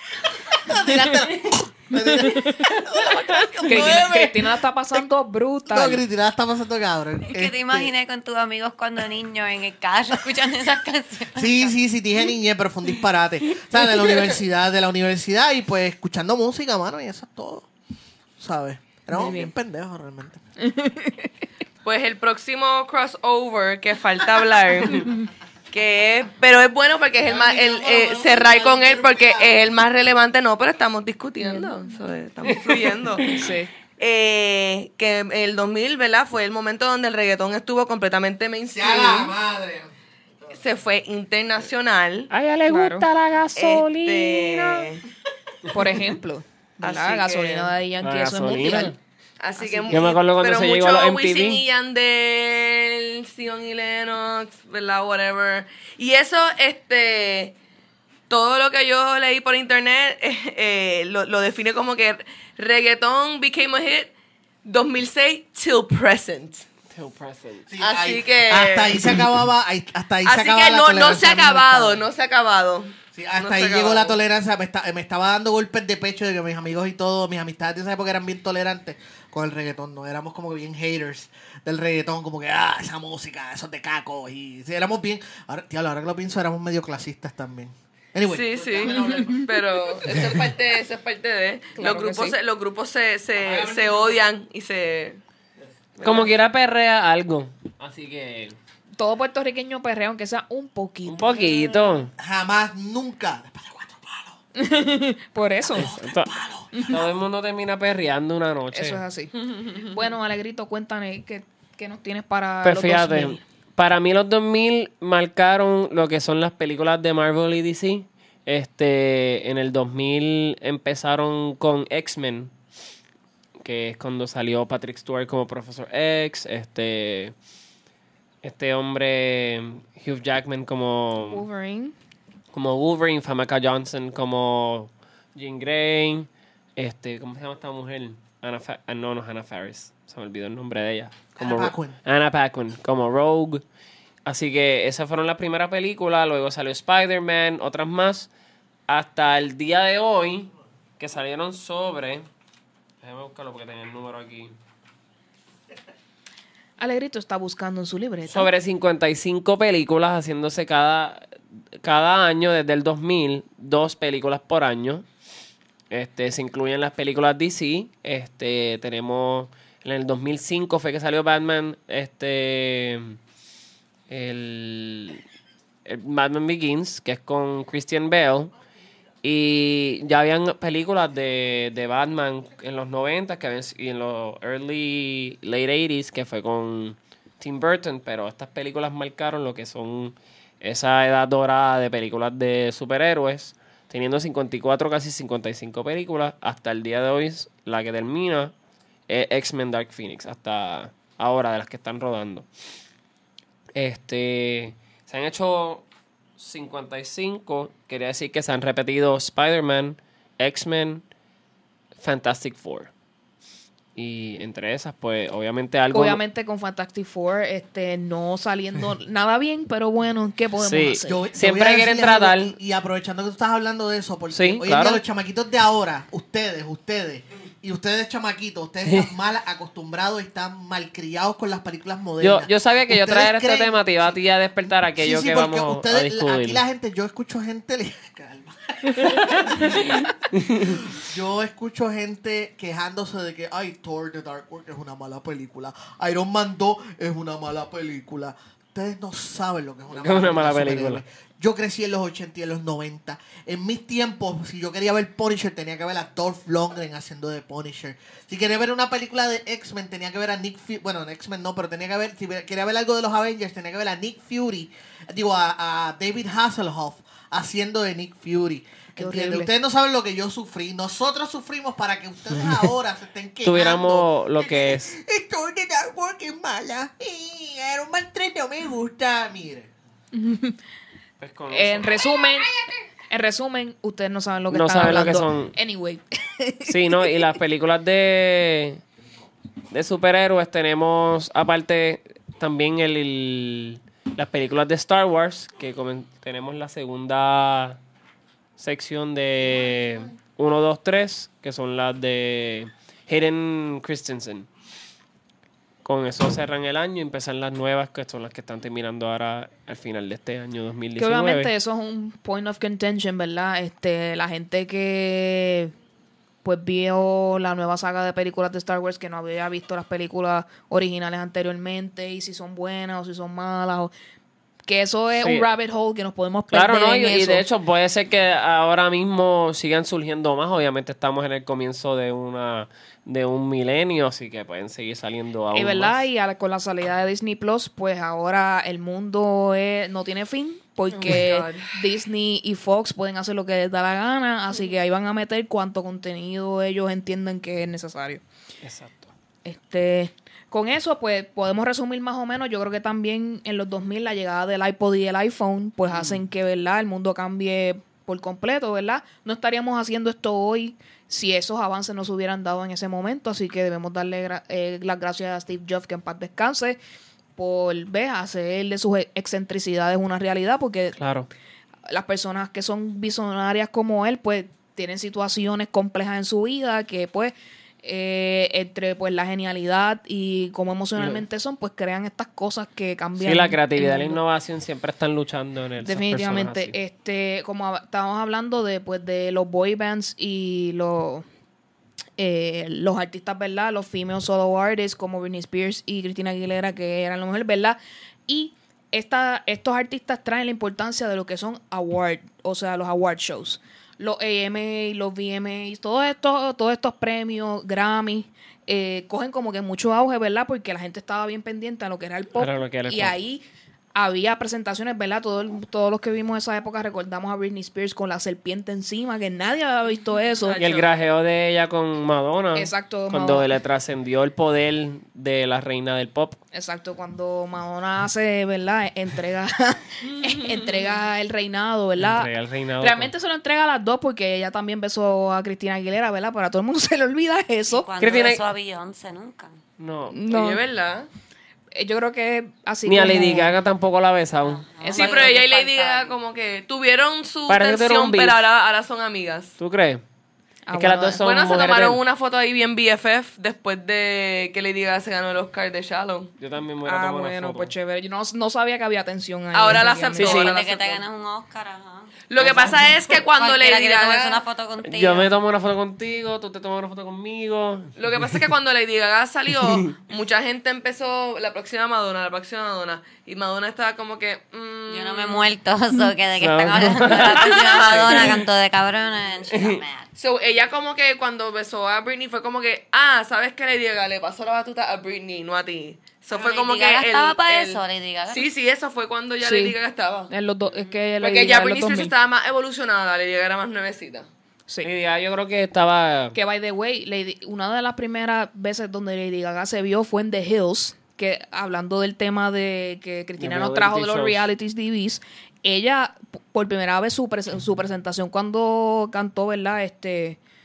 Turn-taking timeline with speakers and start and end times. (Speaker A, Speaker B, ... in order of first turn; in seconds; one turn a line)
Speaker A: 0.3-5.0
Speaker B: 1.9-2.8
Speaker B: 3.6-6.0
Speaker A: 5.7-7.9
Speaker C: 7.3-11.7
Speaker A: 11.3-17.7
Speaker A: 18.4-20.4
Speaker B: 19.1-19.5
Speaker B: 20.6-21.3
Speaker D: 21.8-25.1
Speaker D: 25.7-33.3
Speaker A: 27.2-29.6
Speaker B: 31.4-31.7
Speaker E: 32.5-33.5
Speaker B: 33.3-33.7
Speaker D: 34.0-39.3
Speaker A: 38.7-39.9
Speaker D: 40.5-42.3
Speaker E: 42.3-44.9
Speaker B: 42.7-43.1
Speaker D: 43.5-45.0
Speaker B: 45.7-48.9
Speaker D: 46.8-47.7
Speaker E: 48.0-49.0
Speaker D: 49.4-57.5
Speaker B: 49.5-50.1
Speaker E: 49.9-51.6
Speaker D: 58.3-64.1
Speaker D: 64.6-66.7
Speaker E: 66.9-67.7
Speaker A: 67.7-72.1
Speaker D: 67.8-69.1
Speaker D: 70.2-74.2
Speaker A: 73.1-90.5
Speaker D: 88.2-95.2
Speaker B: 88.8-89.2
Speaker B: 91.8-92.4
Speaker A: 93.3-94.2
Speaker B: 96.0-96.3
Speaker E: 96.0-98.5
Speaker B: 99.0-101.9
Speaker E: 101.0-102.1
Speaker A: 102.2-104.4
Speaker B: 104.5-105.9
Speaker A: 105.7-107.1
Speaker E: 105.8-109.0
Speaker B: 108.7-109.3
Speaker D: 109.5-109.9
Speaker B: 109.8-113.4
Speaker E: 112.6-122.5
Speaker E: 123.6-127.3
Speaker E: 128.4-131.4
Speaker B: 131.3-131.9
Speaker E: 132.5-143.6
Speaker A: 141.4-142.0
Speaker E: 144.2-148.3
Speaker E: 148.9-152.2
Speaker E: 153.0-154.5
Speaker B: 156.8-158.5
Speaker E: 158.3-161.2
Speaker E: 161.8-165.0
Speaker E: 165.9-173.2
Speaker E: 174.1-175.2
Speaker E: 175.8-178.5
Speaker E: 179.2-198.5
Speaker E: 199.1-202.5
Speaker E: 203.8-205.9
Speaker E: 206.4-211.0
Speaker E: 212.0-212.9
Speaker E: 213.9-216.2
Speaker B: 215.9-221.2
Speaker E: 220.6-222.5
Speaker A: 221.1-234.2
Speaker E: 224.3-225.0
Speaker E: 232.2-236.6
Speaker A: 234.9-240.0
Speaker E: 239.1-240.8
Speaker A: 240.6-279.7
Speaker E: 249.9-251.0
Speaker B: 268.9-269.5
Speaker E: 273.4-274.9
Speaker B: 280.1-280.6
Speaker E: 281.2-282.0
Speaker B: 281.5-282.5
Speaker B: 283.1-287.3
Speaker E: 284.5-285.5
Speaker E: 286.6-288.8
Speaker E: 289.7-297.8
Speaker E: 298.6-304.5
Speaker E: 305.8-311.5
Speaker B: 311.0-315.7
Speaker B: 316.4-323.9
Speaker B: 324.7-327.4
Speaker E: 325.2-325.5
Speaker E: 326.5-336.0
Speaker B: 335.5-348.2
Speaker D: 340.9-341.7
Speaker E: 348.6-349.1
Speaker B: 349.4-366.8
Speaker E: 355.9-356.2
Speaker B: 367.4-371.0
Speaker E: 371.0-371.3
Speaker B: 371.9-384.2
Speaker E: 380.9-381.2
Speaker E: 383.2-386.7
Speaker B: 385.8-391.2
Speaker B: 392.2-413.4
Speaker E: 412.4-413.1
Speaker B: 413.9-420.6
Speaker D: 420.4-420.9
Speaker E: 420.6-426.4
Speaker B: 422.5-423.5
Speaker B: 426.5-437.9
Speaker D: 430.1-430.8
Speaker E: 432.0-433.1
Speaker C: 437.7-439.6
Speaker E: 438.0-438.4
Speaker E: 439.8-440.2
Speaker B: 440.1-440.6
Speaker D: 440.3-441.1
Speaker B: 441.7-443.6
Speaker E: 442.9-444.7
Speaker C: 444.4-446.1
Speaker B: 444.8-445.4
Speaker D: 444.9-449.5
Speaker E: 447.5-448.4
Speaker E: 449.6-450.0
Speaker B: 450.7-451.2
Speaker E: 450.7-452.0
Speaker D: 451.2-456.3
Speaker E: 456.4-457.7
Speaker B: 456.8-460.5
Speaker D: 459.5-461.0
Speaker E: 460.2-460.5
Speaker C: 460.2-465.3
Speaker D: 462.3-464.4
Speaker E: 462.4-462.9
Speaker E: 464.8-468.3
Speaker D: 467.9-475.4
Speaker E: 469.6-469.9
Speaker C: 474.9-480.1
Speaker E: 476.4-478.4
Speaker D: 477.4-478.2
Speaker E: 479.5-479.8
Speaker D: 480.2-487.8
Speaker C: 486.3-488.5
Speaker D: 488.3-490.3
Speaker B: 489.4-489.8
Speaker B: 490.3-492.1
Speaker D: 491.2-494.3
Speaker E: 494.8-496.3
Speaker B: 496.3-510.4
Speaker E: 503.4-504.5